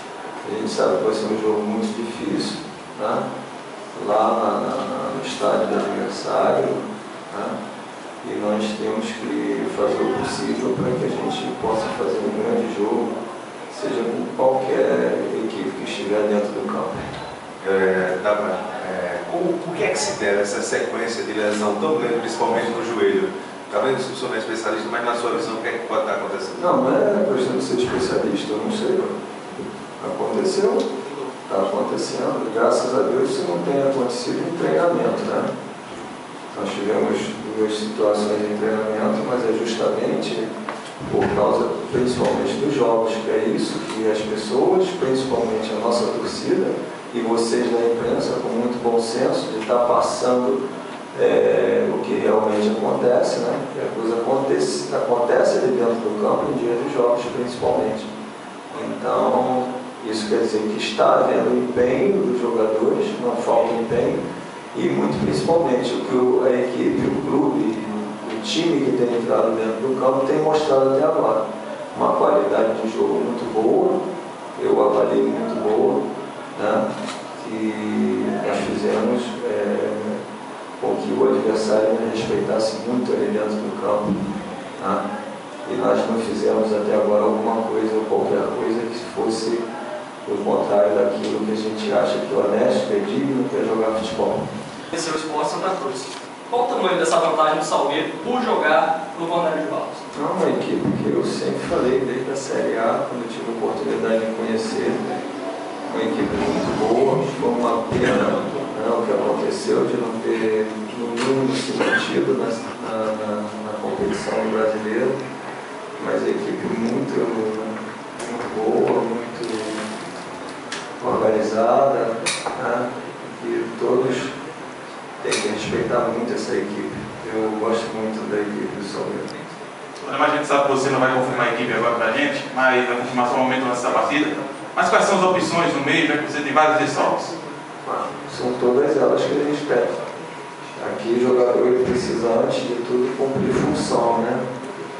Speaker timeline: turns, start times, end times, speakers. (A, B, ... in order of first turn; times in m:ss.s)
0:00.4-0:03.2 A
0:03.9-0:07.5 A
0:08.2-0:13.1 A
0:13.7-0:17.0 A
0:17.6-0:26.6 B
0:26.5-0:29.1 A
0:30.0-0:30.8 A
0:31.5-0:35.5 A
0:36.5-0:40.5 A
0:41.0-0:50.6 A
0:51.1-0:58.1 A
0:58.7-1:04.2 A
1:04.7-1:14.0 A
1:14.5-1:20.2 A
1:20.8-1:24.1 A
1:24.8-1:25.0 A
1:25.6-1:29.6 A
1:30.2-1:34.4 A
1:34.9-1:40.0 C
1:40.1-1:45.0 A
1:45.8-1:55.2 A
1:56.0-1:59.8 A
2:01.0-2:04.4 A
2:05.2-2:09.3 A
2:10.0-2:17.2 D
2:17.8-2:19.9 A
2:20.8-2:24.5 A